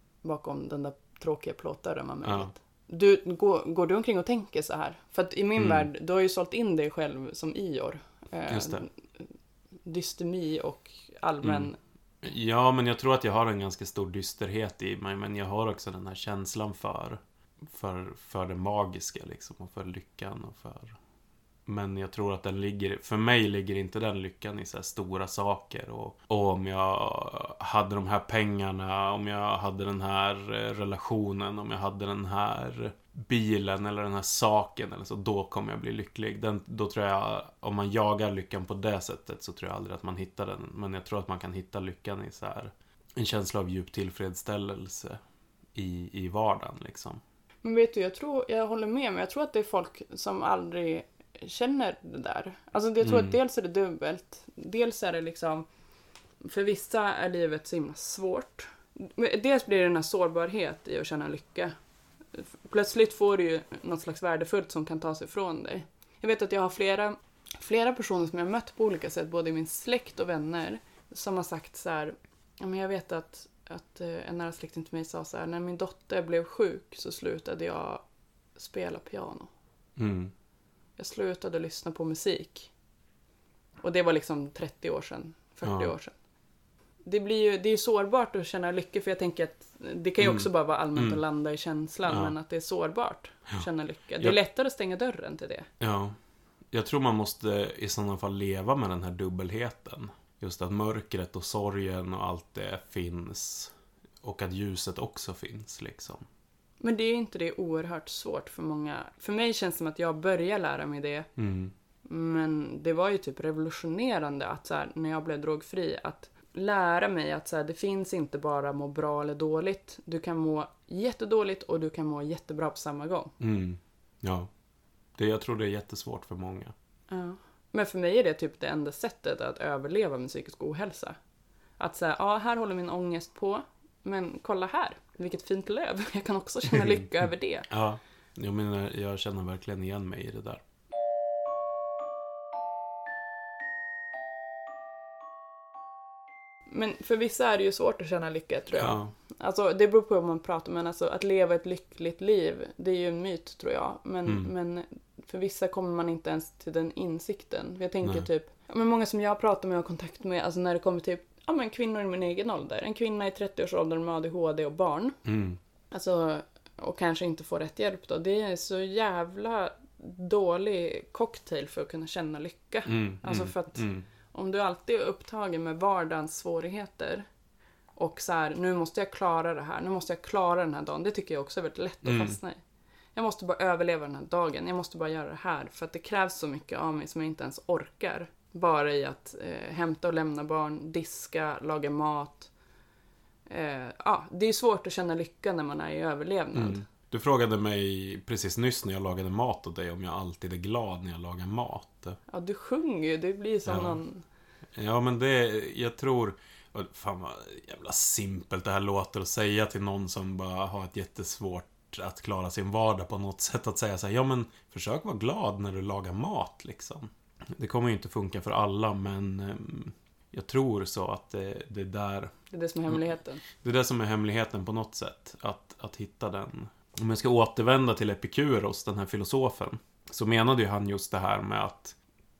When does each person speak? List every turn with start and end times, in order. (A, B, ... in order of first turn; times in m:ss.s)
0:00.2-0:09.2 A
0:02.2-0:02.5 B
0:05.6-0:05.9 B
0:08.5-0:08.8 B
0:09.8-0:11.8 A
0:11.4-0:11.7 B
0:12.2-0:21.0 B
0:21.7-0:45.2 B
0:45.7-0:47.2 B
0:47.6-0:55.6 A
0:53.0-0:53.4 B
0:56.4-1:01.7 A
1:02.3-1:18.0 A
1:18.6-1:19.5 A
1:20.0-1:20.3 B
1:21.0-1:22.7 A
1:23.8-1:26.1 A
1:25.6-1:25.9 B
1:27.0-1:35.7 A
1:30.2-1:31.2 B
1:32.1-1:32.3 B
1:35.8-1:36.2 B
1:36.7-1:46.2 B
1:46.8-1:51.3 A
1:51.4-1:51.7 B
1:52.0-2:03.4 A
2:03.4-2:04.5 B
2:05.2-2:06.7 B
2:07.1-2:11.2 A
2:11.8-2:17.7 A
2:16.7-2:17.1 B
2:17.7-2:20.6 B
2:26.7-2:45.2 A
2:28.8-2:29.1 B
2:45.2-2:45.6 B
2:45.9-2:57.3 A
2:52.9-2:54.1 B
2:58.0-3:02.6 A
3:02.0-3:02.4 B
3:03.1-3:12.5 A
3:13.5-3:16.8 A
3:16.6-3:22.2 B
3:22.3-3:24.2 A
3:23.6-3:24.0 B
3:24.7-3:42.3 B
3:42.5-3:43.4 A
3:43.6-3:52.0 B